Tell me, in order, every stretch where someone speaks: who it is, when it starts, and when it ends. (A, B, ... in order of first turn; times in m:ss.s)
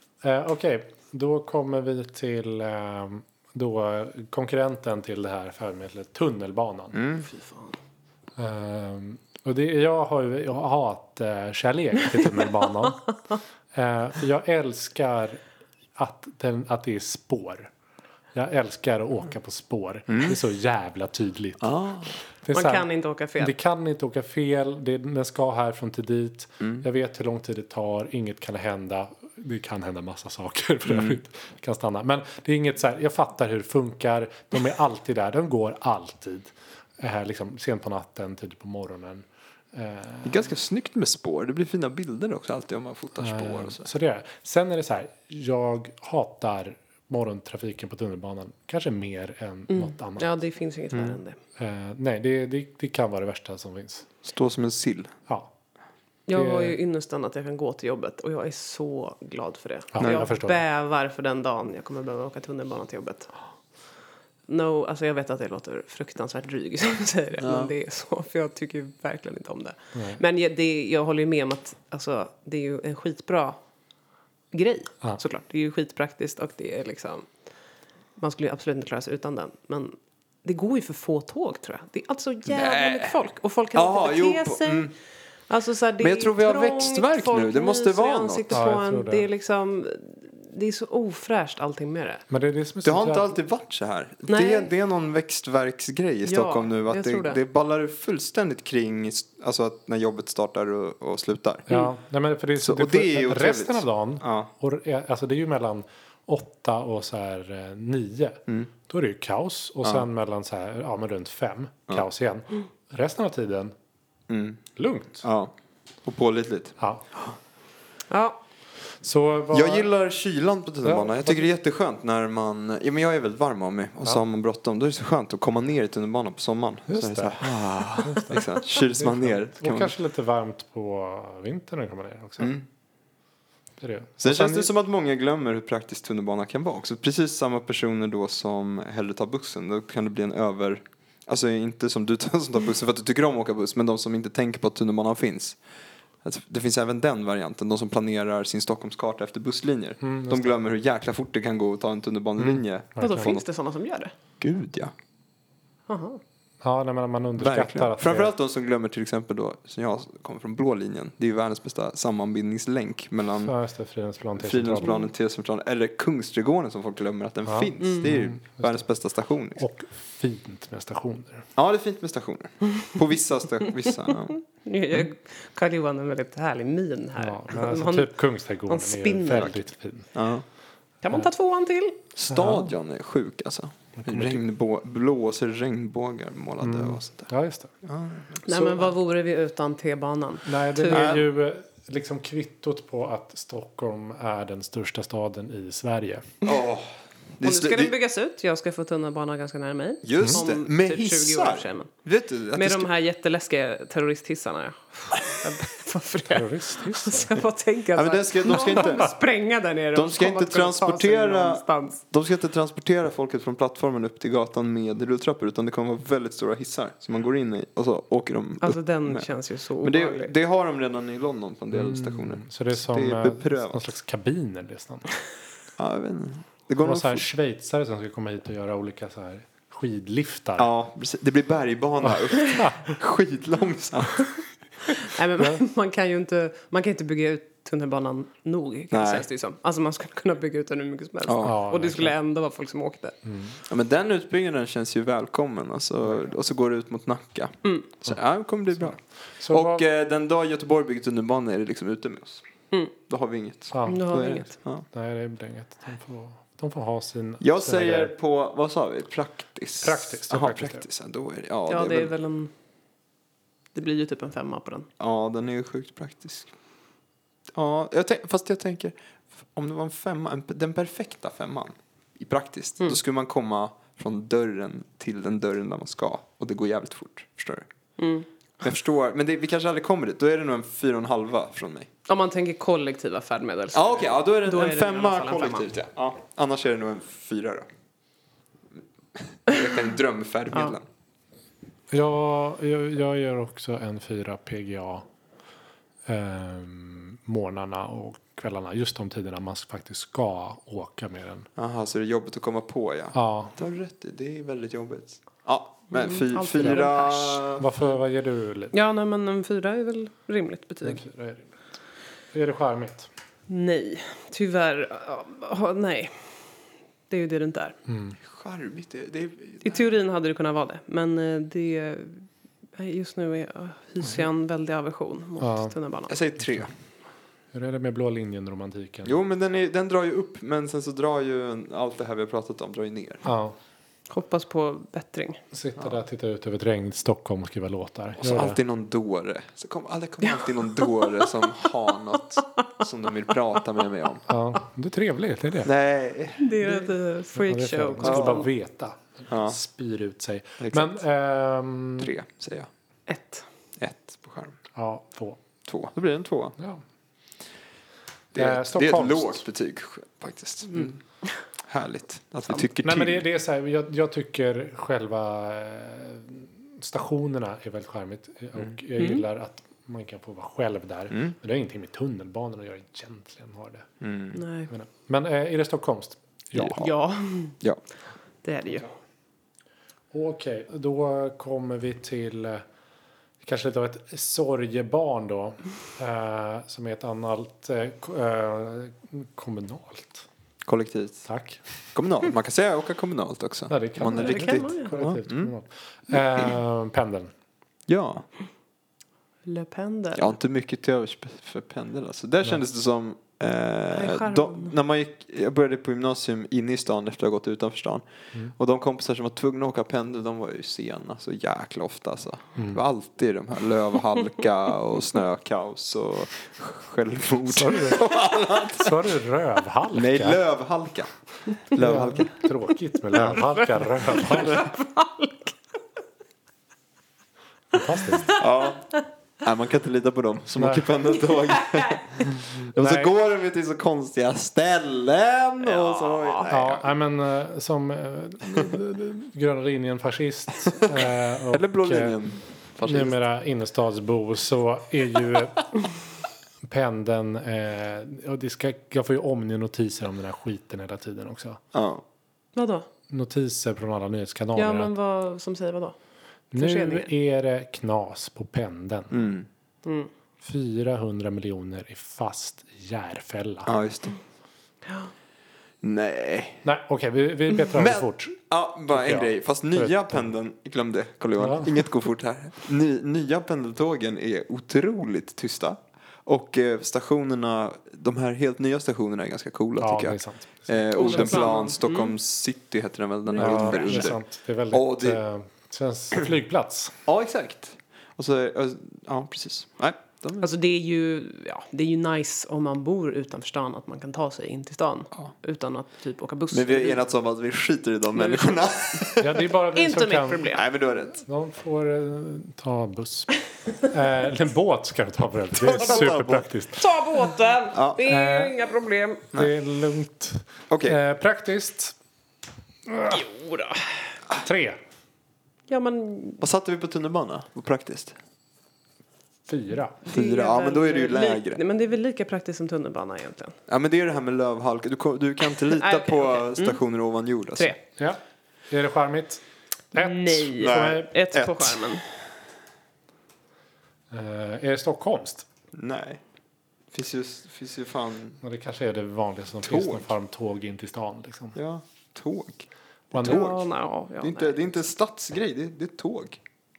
0:00.2-0:07.0 A
0:06.9-0:07.3 B
0:07.2-0:07.8 C
0:08.4-0:13.1 A
0:13.7-0:15.4 A
0:16.0-0:17.7 A
0:18.4-0:21.7 A
0:20.1-0:20.4 B
0:21.6-0:22.1 B
0:22.4-0:22.9 A
0:22.5-0:23.5 C
0:23.4-0:40.5 A
0:30.9-0:31.2 B
0:40.2-0:43.9 B
0:43.2-0:50.4 A
0:49.7-0:51.4 C
0:51.6-0:54.1 A
0:54.2-0:55.1 B
0:56.3-1:03.3 C
0:56.3-0:56.8 A
0:59.9-1:00.6 A
1:04.5-1:13.6 C
1:07.4-1:07.7 B
1:10.0-1:10.2 A
1:14.5-1:17.3 C
1:18.2-1:24.9 C
1:22.5-1:23.2 B
1:23.7-1:24.9 B
1:25.5-1:32.2 C
1:26.0-1:28.5 B
1:28.5-1:29.3 A
1:32.3-1:33.4 A
1:32.8-1:41.7 B
1:34.3-1:34.7 C
1:36.2-1:37.4 C
1:41.7-1:53.7 A
1:42.6-1:44.5 B
1:54.3-1:54.6 B
1:54.8-1:55.3 A
1:55.2-1:55.5 B
1:56.0-1:57.3 B
1:56.8-1:57.0 A
1:58.1-1:58.4 C
1:59.0-1:59.9 A
1:59.5-2:09.9 B
2:00.8-2:01.5 A
2:06.9-2:08.4 A
2:09.0-2:12.6 A
2:12.4-2:12.6 B
2:13.8-2:14.7 A
2:14.2-2:25.6 B
2:26.2-2:33.4 B
2:30.0-2:30.5 A
2:32.4-2:33.4 A
2:33.0-2:34.1 C
2:34.4-2:34.9 B
2:35.9-2:36.2 C
2:36.6-2:38.3 A
2:37.4-2:43.5 B
2:43.4-2:45.0 A
2:44.4-2:49.6 B
2:44.8-2:45.1 C
2:47.5-2:48.9 A
2:49.6-2:51.5 A
2:51.6-2:54.4 B
2:54.3-2:58.2 C
2:57.2-3:00.1 A
2:58.7-2:59.6 C
3:00.1-3:00.4 B
3:01.0-3:02.0 C
3:02.2-3:07.3 B
3:02.3-3:02.7 A
3:04.0-3:04.4 A
3:06.6-3:07.7 A
3:07.8-3:08.4 B
3:08.4-3:11.2 C
3:10.5-3:16.3 A
3:10.9-3:11.3 B
3:16.4-3:18.0 B
3:17.4-3:21.9 C
3:20.0-3:22.9 B
3:22.6-3:32.0 C
3:26.3-3:27.3 A
3:28.0-3:29.1 B
3:29.9-3:39.3 B
3:38.6-3:40.3 C
3:39.8-3:43.8 B
3:41.7-3:45.2 A
3:45.8-3:47.3 B
3:46.8-3:50.7 A
3:50.6-3:54.3 B
3:52.1-3:52.9 A
3:55.0-4:03.2 C
3:58.9-3:59.3 B
4:01.2-4:01.6 B
4:01.4-4:02.1 A
4:03.2-4:03.6 A
4:03.7-4:12.4 B
4:07.6-4:07.9 C
4:09.4-4:09.8 A
4:13.0-4:14.8 B
4:13.7-4:14.1 A
4:13.9-4:14.5 C
4:14.9-4:18.1 A
4:17.4-4:22.1 B
4:19.8-4:20.8 A
4:21.7-4:22.5 C
4:23.8-4:24.9 C
4:25.0-4:26.5 B
4:27.5-4:37.7 B
4:38.0-4:38.3 C
4:38.6-4:41.9 B
4:42.1-4:45.7 C
4:43.7-4:47.7 B
4:49.2-4:50.9 B
4:51.9-4:55.0 A
4:56.1-5:01.5 A
5:01.6-5:07.7 B
5:03.1-5:03.6 A
5:05.9-5:07.4 C
5:06.6-5:06.8 A
5:07.6-5:08.7 A
5:08.7-5:11.0 C
5:10.8-5:11.5 A
5:12.3-5:13.1 A
5:13.5-5:16.3 C
5:17.1-5:17.8 C
5:17.9-5:18.2 A
5:18.2-5:19.8 B
5:19.6-5:26.1 C
5:25.4-5:25.7 A
5:26.1-5:26.7 B
5:26.4-5:26.7 A
5:27.5-5:29.2 A
5:29.0-5:33.2 B
5:33.2-5:33.6 A
5:34.1-5:35.4 C
5:35.5-5:38.6 A
5:38.2-5:44.2 B
5:44.3-5:45.7 A
5:45.6-5:46.5 B
5:46.4-5:48.5 C
5:47.4-5:52.1 A
5:48.0-5:48.4 B
5:49.3-5:49.6 B
5:50.6-5:51.0 B
5:52.0-5:52.7 B
5:53.1-5:53.5 C
5:53.8-5:54.6 B
5:54.8-5:55.4 A
5:55.7-5:56.6 B
5:58.3-5:59.4 A
5:58.3-6:01.0 B
6:00.7-6:01.4 C
6:01.6-6:03.2 B
6:02.8-6:13.9 A
6:09.0-6:09.2 C
6:14.0-6:14.4 B
6:14.3-6:14.7 C
6:14.7-6:16.9 A
6:16.5-6:16.9 B
6:16.8-6:17.6 C
6:18.4-6:18.9 C
6:20.1-6:22.6 A
6:23.4-6:30.3 A
6:30.6-6:31.3 B
6:31.3-6:31.6 A
6:32.0-6:35.5 B
6:33.7-6:37.3 A
6:34.0-6:34.9 C
6:37.9-6:38.3 B
6:39.4-6:40.4 C
6:40.2-6:48.0 B
6:43.9-6:44.8 C
6:48.6-6:59.1 B
6:57.5-7:00.4 A
6:59.9-7:01.1 B
7:01.7-7:02.3 B
7:01.7-7:04.7 A
7:03.4-7:05.6 C
7:07.7-7:08.4 A
7:08.3-7:08.9 B
7:09.4-7:16.9 B
7:10.6-7:10.9 A
7:12.6-7:13.1 A
7:15.6-7:16.5 C
7:16.5-7:22.2 A
7:21.5-7:23.2 B
7:22.8-7:25.7 A
7:26.6-7:31.6 A
7:31.7-7:32.0 B
7:32.6-7:32.9 C
7:33.1-7:34.9 A
7:34.6-7:36.0 C
7:36.5-7:39.1 A
7:36.6-7:37.1 C
7:39.1-7:39.5 B
7:39.8-7:40.1 C
7:40.4-7:43.7 A
7:43.6-7:44.2 B
7:44.8-7:45.1 C
7:45.8-7:46.6 B
7:46.6-7:50.3 A
7:47.7-8:04.2 B
7:51.4-7:51.8 A
7:59.8-8:01.6 A
8:01.0-8:02.1 C
8:03.3-8:04.1 C
8:03.4-8:07.0 A
8:04.7-8:05.2 B
8:07.1-8:10.5 B
8:10.4-8:17.0 C
8:16.5-8:19.5 B
8:18.2-8:19.0 C
8:19.2-8:20.5 A
8:19.8-8:20.6 C
8:20.5-8:21.2 B
8:21.2-8:26.8 A
8:25.6-8:26.5 B
8:26.8-8:29.2 C
8:27.7-8:28.0 B
8:28.1-8:28.6 A
8:29.3-8:32.0 A
8:30.7-8:31.0 B
8:32.9-8:33.2 A
8:33.1-8:33.8 C
8:34.4-8:34.8 A
8:35.7-8:36.4 C
8:36.4-8:38.2 B
8:39.5-8:40.0 A
8:40.0-8:43.6 C
8:40.1-8:41.6 B
8:43.7-8:47.7 B
8:45.7-8:46.8 C
8:48.0-8:51.1 A
8:49.9-8:52.0 C
8:50.6-8:51.8 B
8:54.1-8:55.5 A
8:55.7-8:56.2 B
8:56.9-8:58.4 B
8:58.4-9:01.6 A
8:59.6-9:00.1 B
9:01.6-9:03.6 B
9:03.1-9:03.5 A
9:03.2-9:04.8 C
9:04.2-9:06.4 B